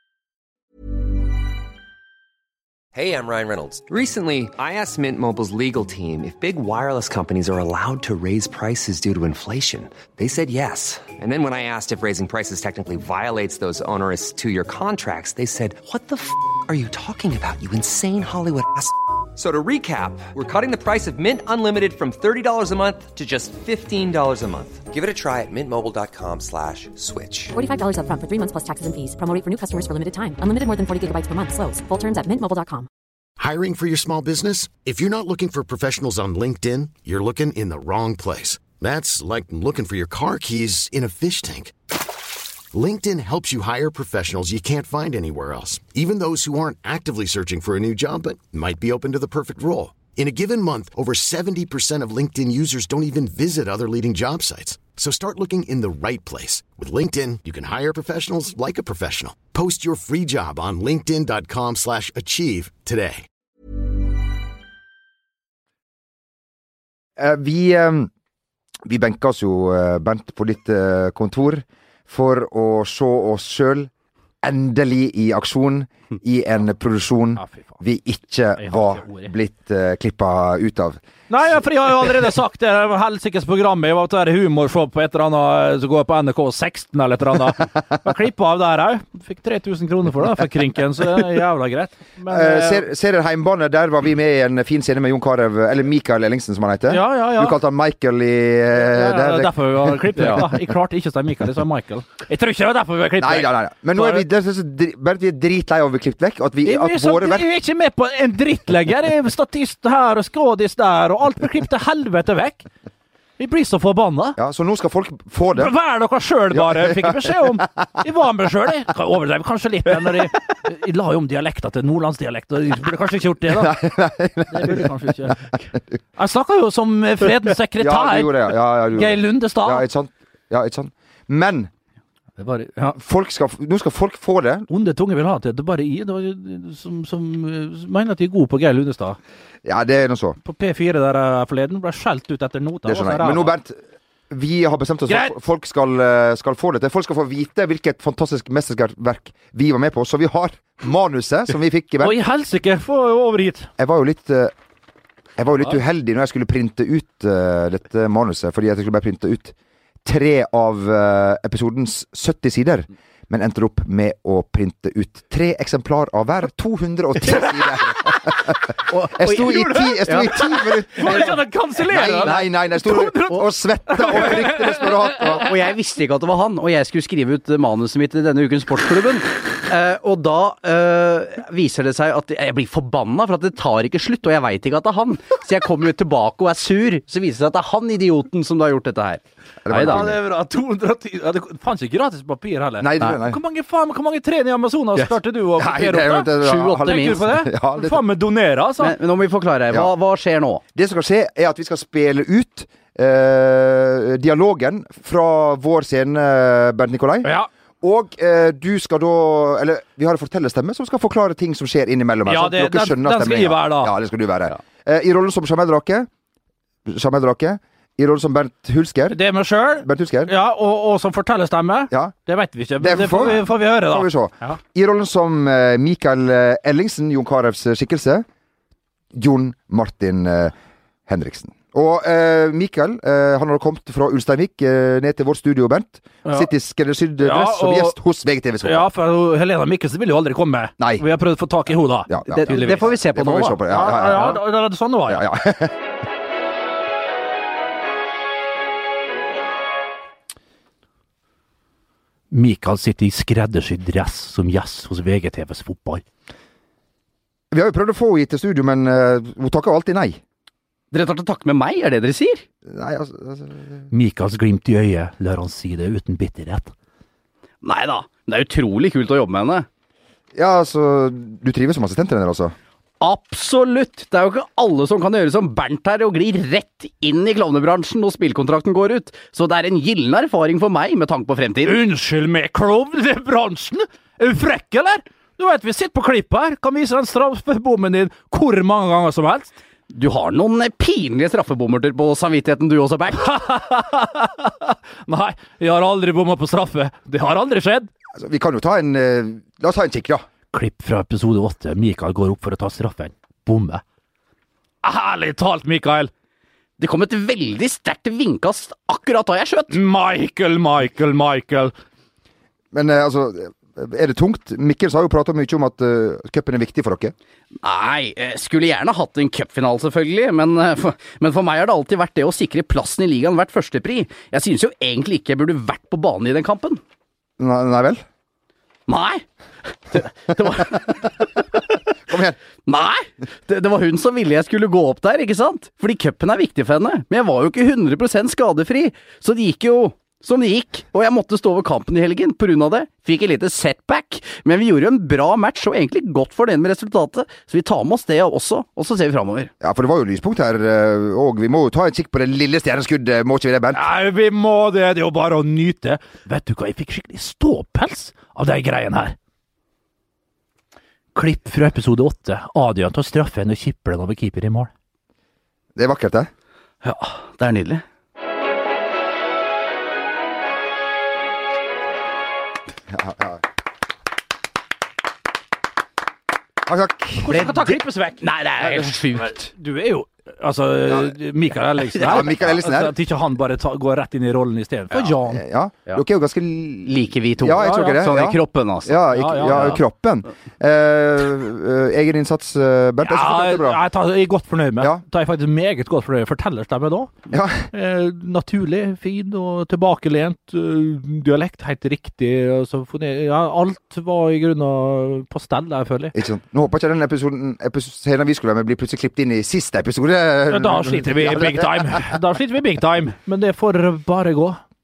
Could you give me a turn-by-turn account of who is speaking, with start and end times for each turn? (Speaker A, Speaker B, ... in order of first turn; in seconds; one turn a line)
Speaker A: 2.9-27.5
Speaker B: 27.5-32.9
Speaker C: 33.4-41.7
Speaker C: 42.7-63.2
Speaker D: 67.2-68.1
Speaker D: 68.8-73.9
Speaker D: 74.4-81.0
Speaker E: 77.4-77.8
Speaker E: 78.6-79.3
Speaker E: 81.3-92.8
Speaker D: 92.3-100.5
Speaker E: 96.9-97.6
Speaker E: 98.8-104.2
Speaker D: 103.2-107.5
Speaker E: 106.6-112.7
Speaker E: 113.4-114.4
Speaker D: 114.3-115.7
Speaker E: 115.5-123.9
Speaker D: 116.5-117.5
Speaker D: 123.5-125.3
Speaker E: 124.5-129.8
Speaker D: 127.8-131.7
Speaker E: 132.4-133.0
Speaker D: 132.9-134.7
Speaker E: 134.7-139.2
Speaker D: 139.6-140.4
Speaker E: 140.4-143.5
Speaker D: 142.8-143.8
Speaker D: 144.3-152.2
Speaker E: 145.1-145.3
Speaker E: 152.0-153.7
Speaker D: 153.8-154.5
Speaker D: 155.4-175.5
Speaker F: 168.9-171.3
Speaker E: 169.5-175.4
Speaker F: 172.2-172.5
Speaker F: 175.4-190.1
Speaker D: 189.6-190.2
Speaker E: 189.7-198.9
Speaker D: 192.8-193.4
Speaker D: 195.6-198.0
Speaker F: 196.4-197.3
Speaker F: 198.8-200.6
Speaker D: 200.7-216.1
Speaker E: 207.2-207.5
Speaker E: 212.3-213.9
Speaker D: 216.8-219.2
Speaker E: 219.1-224.6
Speaker D: 219.8-220.3
Speaker D: 222.8-228.2
Speaker D: 229.1-230.5
Speaker D: 231.1-238.9
Speaker E: 237.2-238.0
Speaker E: 238.6-243.0
Speaker D: 240.8-241.1
Speaker D: 242.1-244.4
Speaker F: 242.3-243.6
Speaker E: 243.6-245.2
Speaker D: 245.1-245.8
Speaker E: 252.3-256.0
Speaker D: 257.5-260.2
Speaker F: 260.9-262.4
Speaker D: 262.6-263.8
Speaker E: 263.9-266.7
Speaker F: 267.6-269.7
Speaker D: 270.3-272.5
Speaker F: 273.0-281.8
Speaker E: 281.6-289.6
Speaker F: 289.9-293.3
Speaker E: 293.2-297.9
Speaker D: 298.1-300.2
Speaker E: 300.5-303.8
Speaker E: 304.8-306.1
Speaker F: 306.8-309.8
Speaker E: 309.7-311.7
Speaker D: 312.7-317.1
Speaker F: 317.6-326.8
Speaker D: 327.4-328.0
Speaker F: 328.9-329.2
Speaker F: 329.9-331.8
Speaker D: 332.1-332.4
Speaker F: 332.6-349.5
Speaker D: 349.6-353.9
Speaker E: 353.7-359.1
Speaker E: 361.1-364.7
Speaker D: 365.8-366.3
Speaker F: 366.8-367.8
Speaker D: 372.9-373.4
Speaker D: 376.6-377.5
Speaker E: 377.2-385.4
Speaker F: 377.3-379.5
Speaker D: 382.0-382.9
Speaker D: 385.3-393.8
Speaker F: 386.8-389.8
Speaker E: 387.6-388.0
Speaker E: 389.1-389.8
Speaker E: 393.0-397.1
Speaker D: 397.3-397.7
Speaker E: 397.7-406.1
Speaker D: 406.1-412.0
Speaker E: 410.5-414.6